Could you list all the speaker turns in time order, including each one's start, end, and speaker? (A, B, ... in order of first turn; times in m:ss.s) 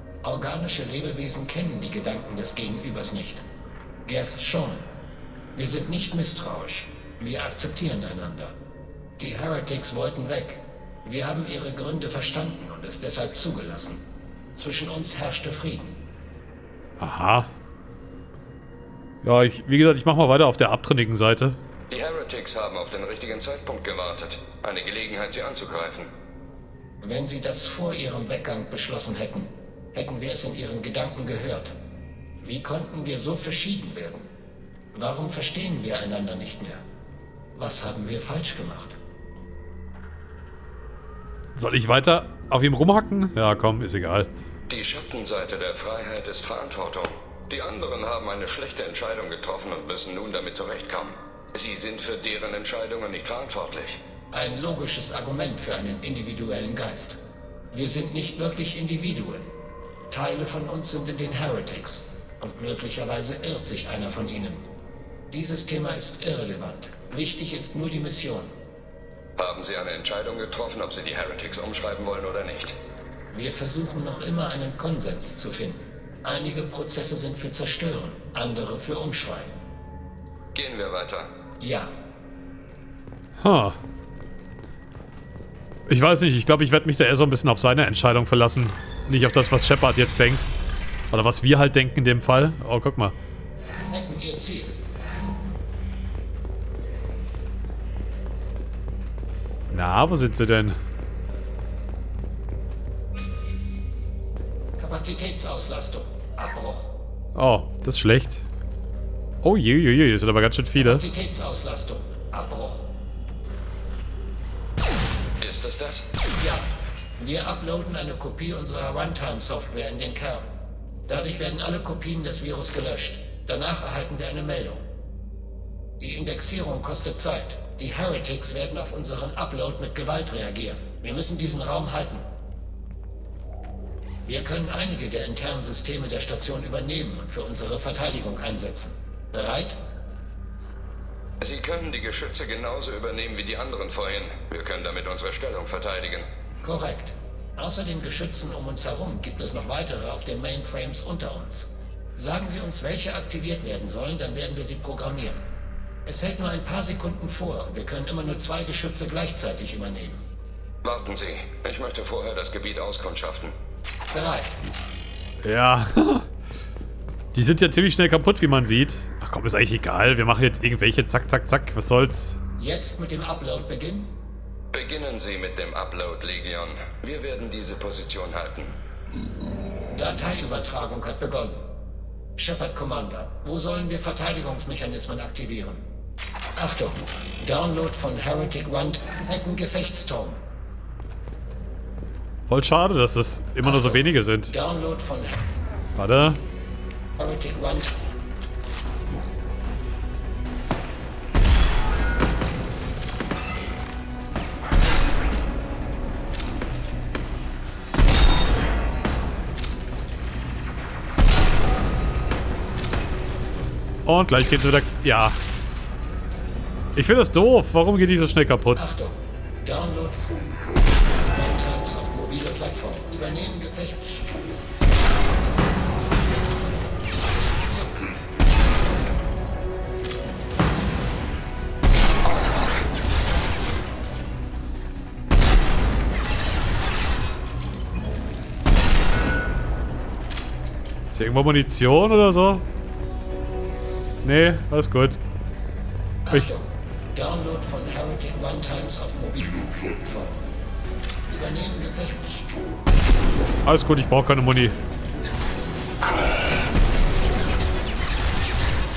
0:00.2-0:03.4 A
0:04.0-0:04.8 A
0:05.5-0:08.6 A
0:09.2-0:14.0 A
0:14.5-0:16.0 A
0:17.0-0:17.5 B
0:19.2-0:21.6 B
0:21.9-0:26.1 C
0:27.0-0:31.7 A
0:32.4-0:34.3 A
0:34.9-0:36.8 A
0:37.5-0:39.0 A
0:41.6-0:44.3 B
0:44.7-0:54.0 C
0:54.3-0:57.2 A
0:57.7-0:59.5 A
1:00.1-1:04.7 A
1:05.3-1:08.5 A
1:09.4-1:12.8 C
1:13.3-1:19.6 A
1:20.5-1:21.3 C
1:21.6-1:21.9 A
1:23.4-1:23.8 B
1:25.9-1:30.5 B
1:31.1-1:33.1 B
1:33.9-1:34.8 A
1:39.7-1:40.8 B
1:44.8-1:47.0 A
1:47.3-1:48.4 B
1:49.4-1:51.0 B
1:50.8-1:53.0 A
1:55.4-1:56.0 C
1:56.3-2:00.5 A
2:01.0-2:04.9 A
2:06.0-2:12.3 A
2:14.2-2:19.8 A
2:21.4-2:26.3 C
2:26.6-2:35.4 A
2:36.0-2:40.2 A
2:40.8-2:43.5 C
2:44.1-2:44.6 A
2:45.4-2:46.3 B
2:47.3-2:52.4 B
2:52.6-2:54.2 A
2:54.7-2:58.7 C
2:59.9-3:01.7 A
3:02.4-3:05.8 A
3:06.6-3:10.4 A
3:12.5-3:14.5 B
3:13.6-3:15.5 A
3:16.0-3:16.4 B
3:17.2-3:17.9 A
3:34.0-3:35.4 B
3:36.9-3:38.9 B
3:38.7-3:40.4 A
3:41.2-3:44.3 A
3:47.6-3:48.1 A
4:01.1-4:02.6 B
4:04.2-4:05.2 B
4:06.2-4:10.4 A
4:11.3-4:12.5 A
4:13.6-4:14.8 B